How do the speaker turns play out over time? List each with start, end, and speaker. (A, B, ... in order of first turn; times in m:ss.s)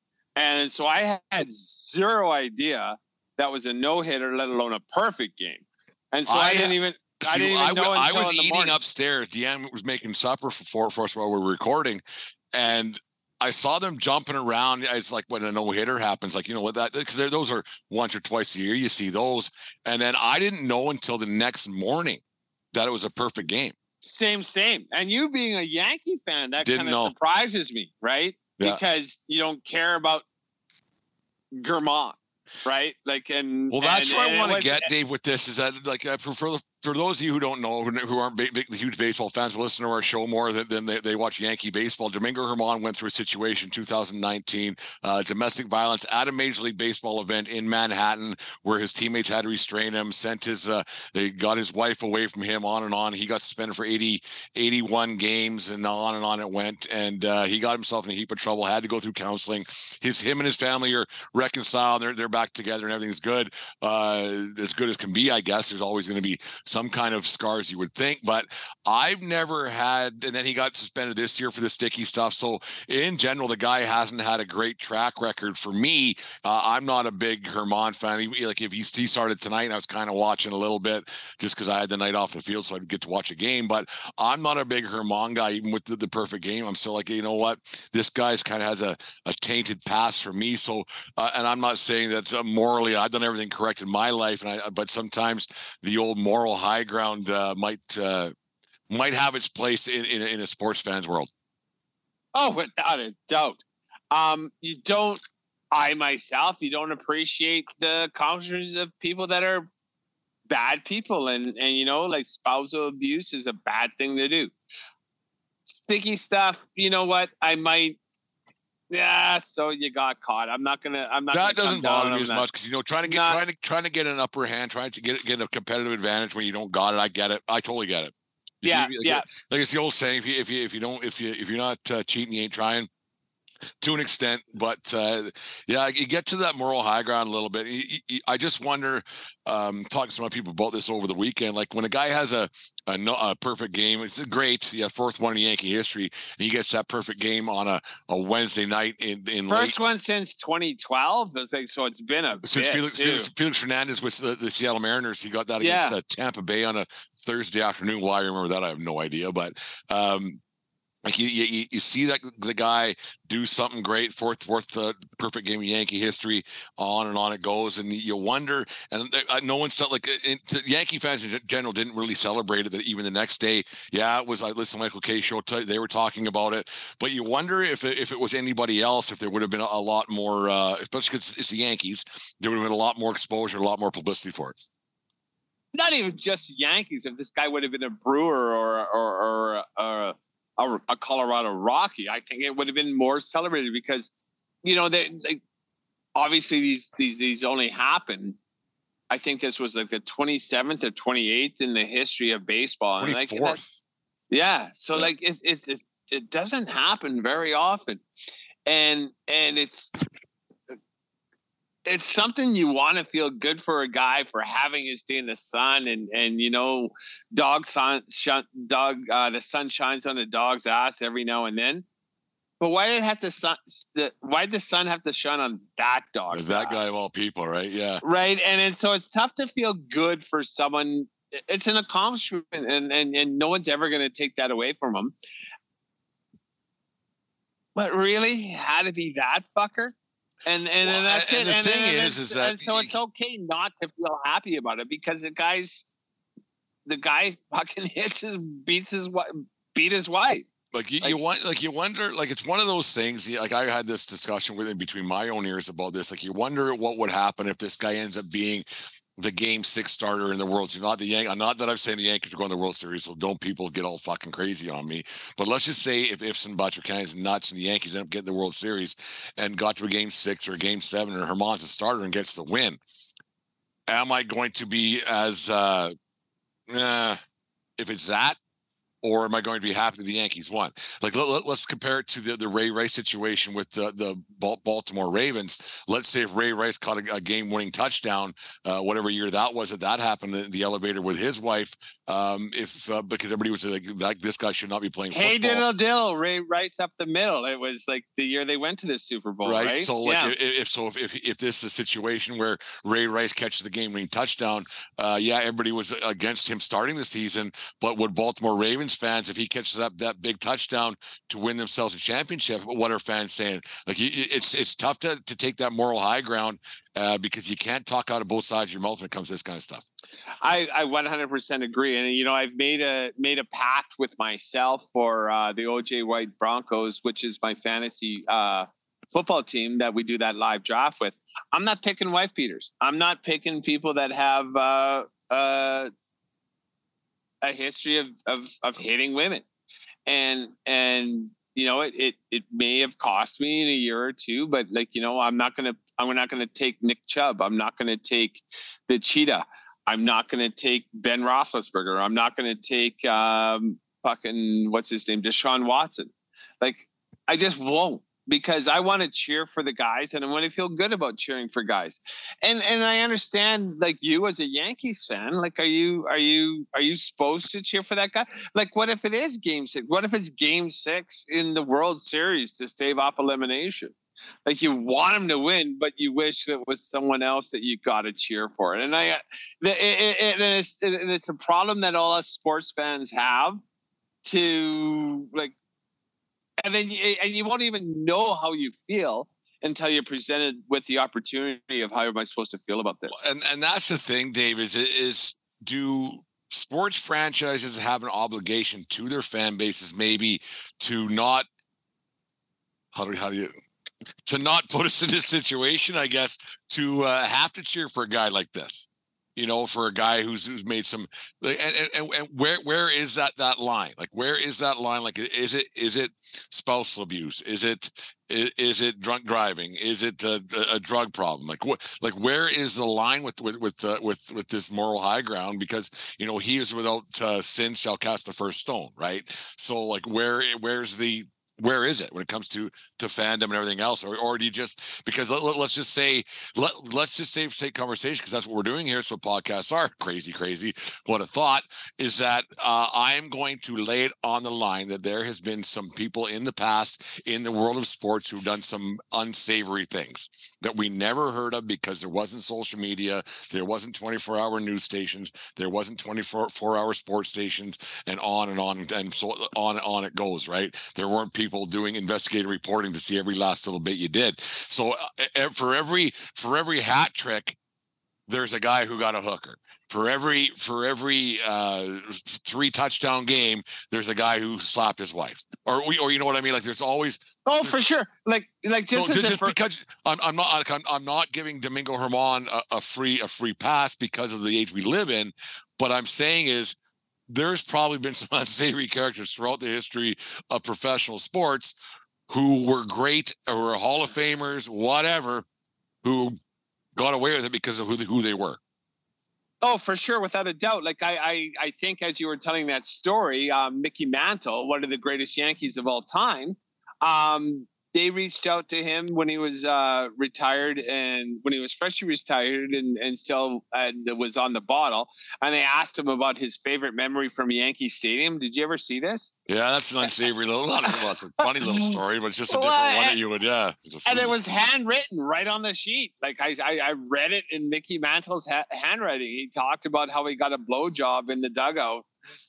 0:00.4-0:08.8 A
0:06.3-0:22.2 B
0:22.7-0:23.7 B
0:24.0-0:30.2 A
0:26.6-0:27.1 B
0:31.6-0:34.9 A
0:33.7-1:38.3 B
1:38.9-1:41.3 B
1:42.3-1:49.7 A
1:50.5-1:54.5 A
1:55.6-1:58.0 A
1:58.9-2:02.4 A
2:01.3-2:12.9 B
2:03.0-2:03.4 A
2:08.6-2:09.3 A
2:13.8-2:29.7 B
2:29.5-2:33.3 A
2:32.4-2:40.4 B
2:35.6-2:36.0 A
2:41.0-3:04.6 B
3:05.7-3:14.1 A
3:14.6-3:15.4 A
3:16.2-3:18.4 A
3:19.1-3:23.6 A
3:23.0-3:23.8 B
3:24.3-3:28.0 A
3:28.6-3:29.9 A
3:31.8-3:41.8 A
3:42.6-3:47.0 A
3:46.3-3:48.0 B
3:48.0-3:55.1 A
3:57.7-4:05.8 A
4:00.8-4:03.0 B
4:06.8-4:10.5 A
4:10.7-4:18.6 B
4:19.2-4:32.8 B
4:33.9-4:35.9 B
4:36.7-4:37.2 B
4:37.8-4:38.4 B
4:39.0-4:55.6 B
4:55.1-5:00.3 A
4:59.4-5:19.8 B
5:20.4-5:35.9 A
5:37.4-5:39.4 A
5:40.1-6:13.9 A
6:14.4-6:23.6 A
6:24.2-6:25.5 A
6:26.6-6:33.2 A
6:33.1-6:41.5 B
6:42.9-6:43.5 B
6:44.2-7:47.6 B
7:48.3-7:57.7 B
7:57.4-7:59.5 A
7:58.9-8:06.7 B
8:07.3-8:11.8 B
8:12.3-8:15.4 B
8:16.0-8:16.4 B
8:16.9-8:18.6 B
8:19.6-8:39.3 A
8:39.5-8:44.3 B
8:41.6-8:42.0 A
8:42.5-8:43.2 A
8:44.0-8:52.1 A